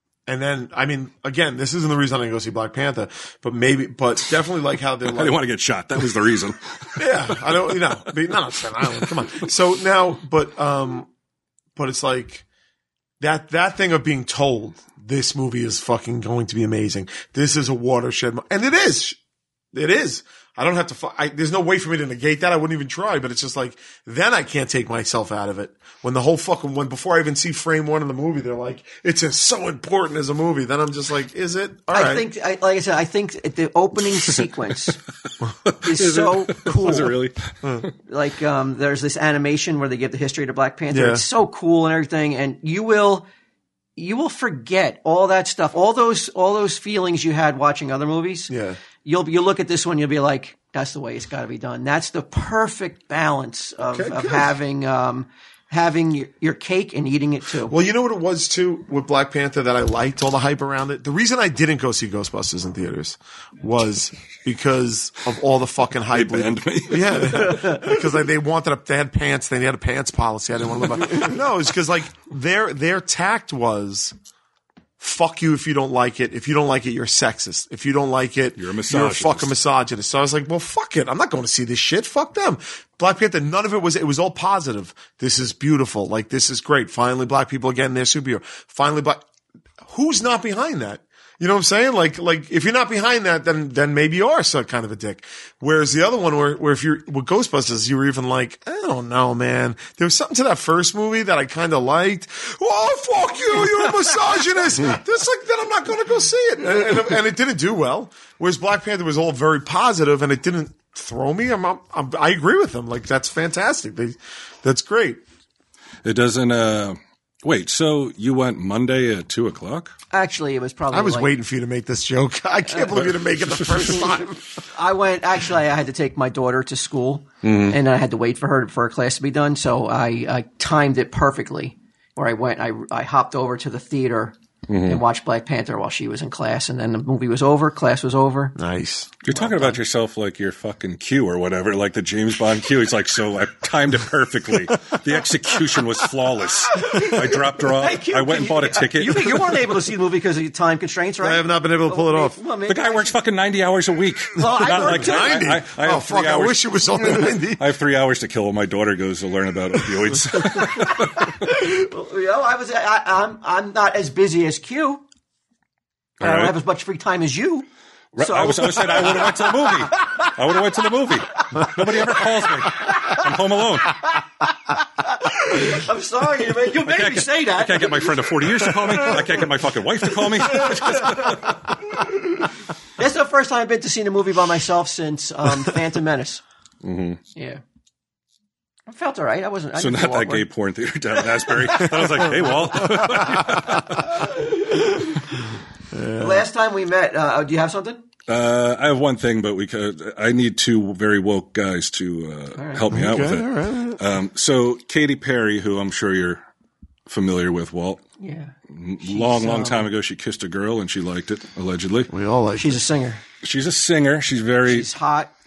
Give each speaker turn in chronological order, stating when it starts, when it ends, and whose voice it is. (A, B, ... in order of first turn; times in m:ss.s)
0:00.3-0:05.4 A
0:05.1-0:08.1 B
0:07.0-0:11.1 A
0:08.9-0:09.4 B
0:11.8-0:12.4 A
0:13.2-0:19.2 A
0:19.7-0:32.3 A
0:31.9-0:35.0 C
0:35.7-0:37.9 B
0:35.8-0:37.2 C
0:38.1-0:43.3 C
0:40.9-0:41.2 A
0:44.0-0:48.5 C
0:48.5-0:48.8 A
0:49.0-0:57.7 C
0:53.9-0:54.6 A
0:57.7-1:14.1 A
1:06.1-1:07.8 B
1:15.0-1:29.3 A
1:18.6-1:19.5 B
1:29.8-1:55.2 A
1:56.0-2:00.0 B
2:00.1-2:01.3 C
2:00.9-2:04.4 A
2:03.0-2:03.8 B
2:04.6-2:18.6 C
2:07.4-2:07.8 B
2:14.7-2:15.0 B
2:18.6-2:19.2 A
2:19.2-2:29.7 B
2:19.3-2:19.8 C
2:26.7-2:33.2 C
2:31.2-2:32.4 A
2:32.7-2:41.3 B
2:34.4-2:35.5 C
2:34.6-2:37.7 A
2:40.8-2:45.0 C
2:46.2-2:46.6 B
2:46.2-2:47.7 C
2:48.1-2:54.0 B
2:48.2-2:50.3 C
2:51.4-2:53.3 C
2:55.0-2:59.4 C
2:56.7-3:01.5 B
3:00.4-3:02.0 C
3:03.0-3:06.4 C
3:06.8-3:07.2 B
3:07.3-3:07.6 C
3:08.9-3:10.5 C
3:09.8-3:14.2 B
3:11.2-3:15.3 C
3:13.2-3:13.6 A
3:15.9-3:16.5 A
3:16.2-3:18.0 C
3:18.3-3:26.4 B
3:22.6-3:22.9 C
3:22.9-3:24.0 A
3:27.1-3:28.0 B
3:28.2-3:29.9 C
3:28.7-3:32.1 B
3:32.1-3:32.8 A
3:32.6-3:33.2 C
3:33.4-3:34.9 B
3:34.7-3:35.3 C